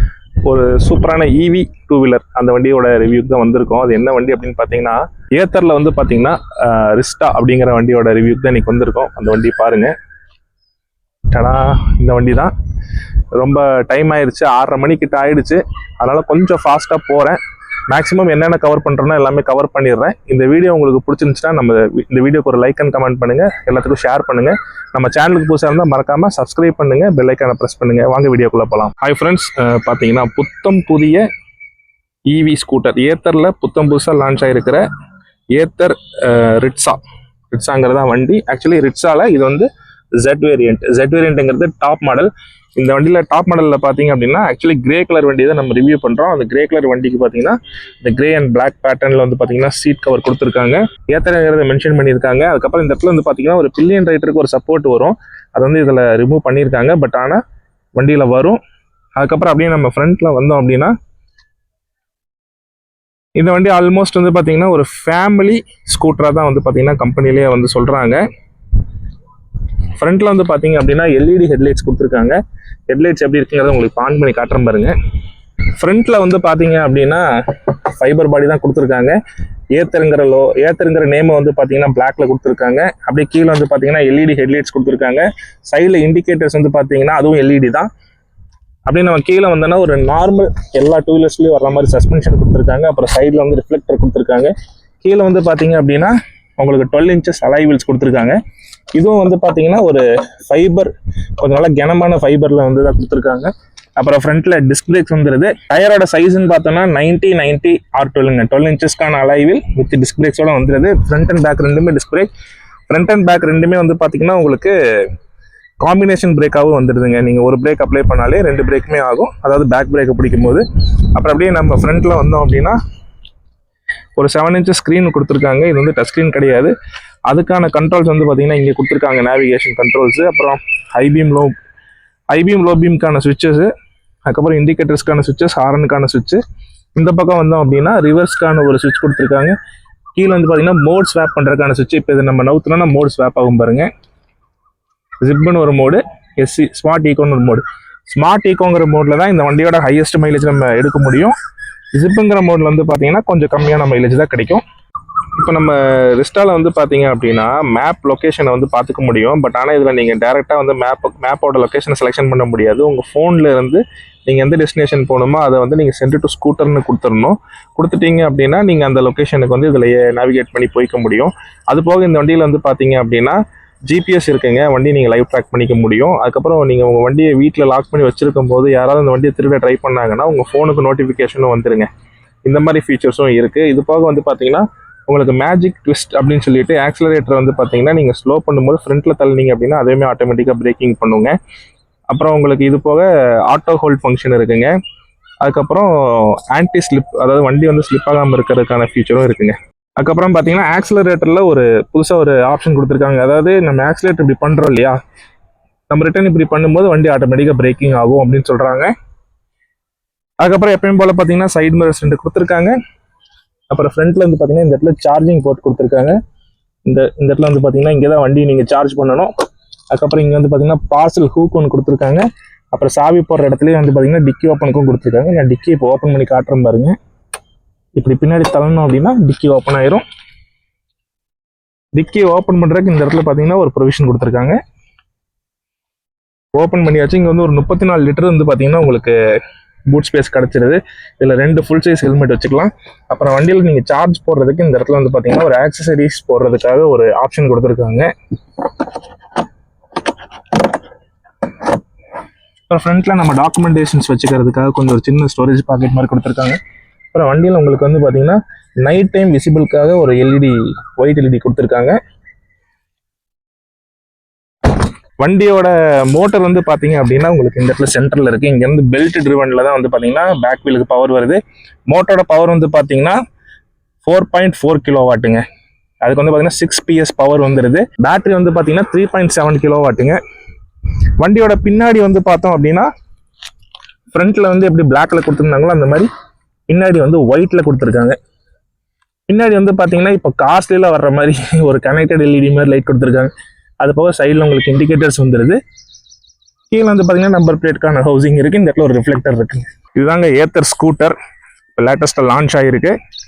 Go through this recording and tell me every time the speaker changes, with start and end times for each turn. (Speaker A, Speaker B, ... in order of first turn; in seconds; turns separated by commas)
Speaker A: 0.5-9.9, Speaker A: 11.3-12.5, Speaker A: 13.3-31.2, Speaker A: 32.3-34.8, Speaker A: 35.5-37.0, Speaker A: 37.5-39.7, Speaker A: 40.2-57.4, Speaker A: 58.0-58.6, Speaker A: 59.2-60.9, Speaker A: 63.4-68.2, Speaker A: 70.0-72.4, Speaker A: 72.9-75.0, Speaker A: 75.8-79.2, Speaker A: 79.7-87.9, Speaker A: 88.9-94.5, Speaker A: 95.0-98.4, Speaker A: 99.0-112.3, Speaker A: 112.9-114.7, Speaker A: 115.8-120.6, Speaker A: 121.2-122.8, Speaker A: 124.2-126.7, Speaker A: 127.3-131.5, Speaker A: 132.3-133.7, Speaker A: 134.3-136.4, Speaker A: 136.9-139.5, Speaker A: 140.2-143.9, Speaker A: 145.2-151.4, Speaker A: 151.9-154.6, Speaker A: 155.4-181.9, Speaker A: 182.5-191.3, Speaker A: 192.1-194.7, Speaker A: 195.4-205.0, Speaker A: 205.9-208.9, Speaker A: 210.4-212.7, Speaker A: 213.7-216.2, Speaker A: 216.9-219.3, Speaker A: 219.9-226.9, Speaker A: 228.0-230.0, Speaker A: 231.9-234.6, Speaker A: 236.6-239.1, Speaker A: 239.9-248.1, Speaker A: 252.7-256.6, Speaker A: 257.1-262.0, Speaker A: 264.8-273.2, Speaker A: 274.0-275.4, Speaker A: 276.0-280.2, Speaker A: 281.2-282.9, Speaker A: 284.1-286.1, Speaker A: 286.7-288.2, Speaker A: 289.3-295.6, Speaker A: 296.7-301.2, Speaker A: 301.7-302.9